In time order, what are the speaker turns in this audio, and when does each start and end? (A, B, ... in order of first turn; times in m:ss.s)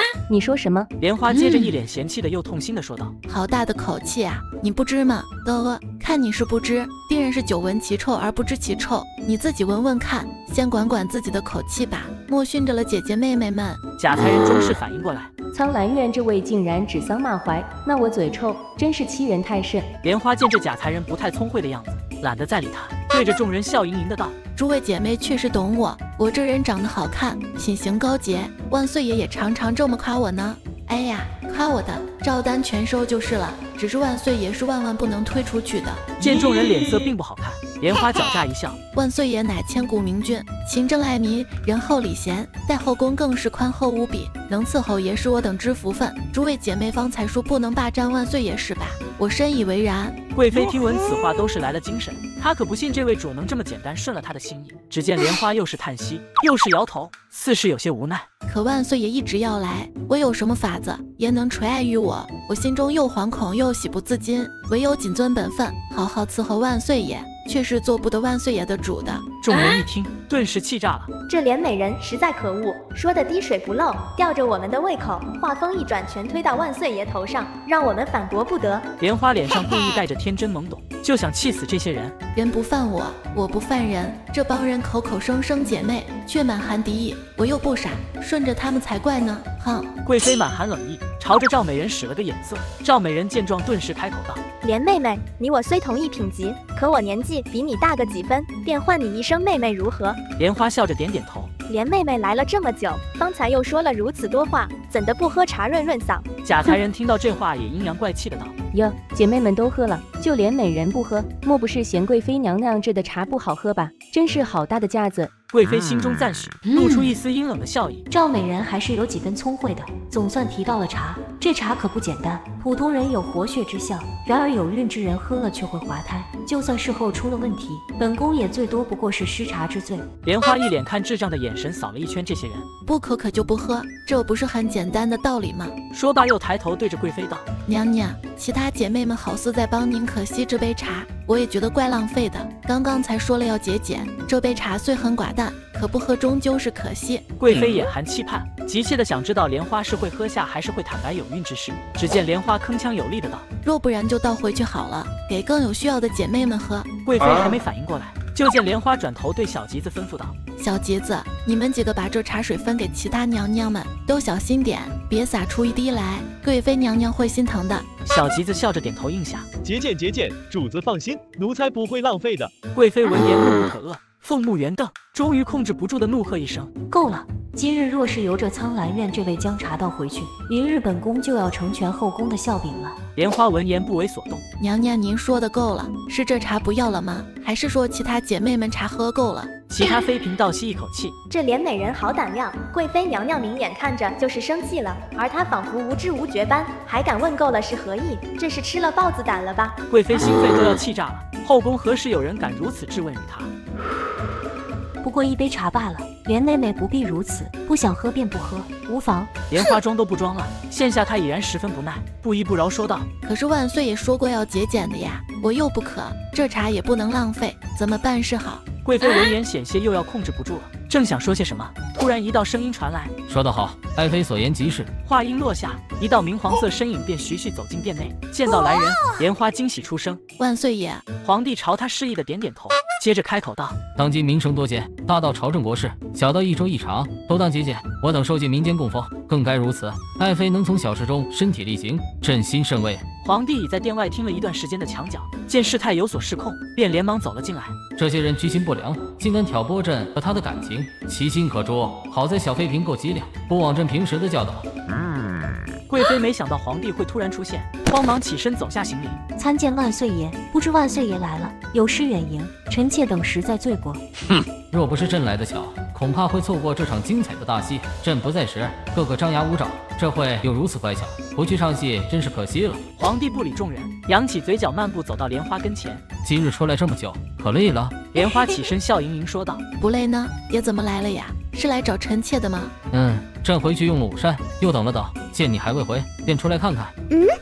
0:00.3-0:00.9 A
0:01.0-0:03.1 B
0:03.3-0:13.8 C
0:14.0-0:15.3 B
0:15.5-0:19.9 A
0:20.0-0:24.4 B
0:24.6-0:36.1 C
0:36.2-0:38.8 B
0:38.9-0:50.2 C
0:50.4-0:58.3 B
0:58.5-1:09.3 C
1:09.4-1:11.1 B
1:11.3-1:18.9 D
1:19.0-1:22.2 B
1:22.3-1:29.9 C
1:30.0-1:34.4 B
1:34.6-1:40.2 D
1:40.4-1:41.5 B
1:41.7-1:46.3 D
1:46.4-1:48.5 B
1:48.7-1:55.3 A
1:55.5-1:58.1 B
1:58.1-2:10.1 E
2:10.2-2:12.7 B
2:12.9-2:15.7 C
2:15.9-2:17.4 B
2:17.7-2:27.3 C
2:27.4-2:33.4 B
2:33.6-2:36.9 C
2:37.0-2:40.3 B
2:40.6-2:47.9 C
2:48.1-2:49.5 B
2:49.6-2:52.5 F
2:52.7-2:56.7 B
2:56.9-3:03.0 E
3:03.2-3:04.4 B
3:04.6-3:09.5 C
3:09.7-3:11.2 B
3:11.3-3:19.8 D
3:19.9-3:23.5 B
3:25.0-3:29.4 E
3:29.5-3:33.1 B
3:33.2-3:38.6 C
3:38.8-3:43.1 B
3:43.3-3:44.9 G
3:45.0-3:50.2 B
3:50.4-3:51.0 C
3:51.2-3:53.8 B
3:54.0-4:03.0 G
4:03.2-4:07.8 B
4:08.0-4:14.7 G
4:15.9-4:19.2 B
4:19.4-4:24.0 E
4:24.7-4:32.8 G
4:33.0-4:36.0 B
4:36.2-4:38.1 G
4:38.1-4:39.6 B
4:39.8-4:42.7 C
4:42.9-4:46.9 G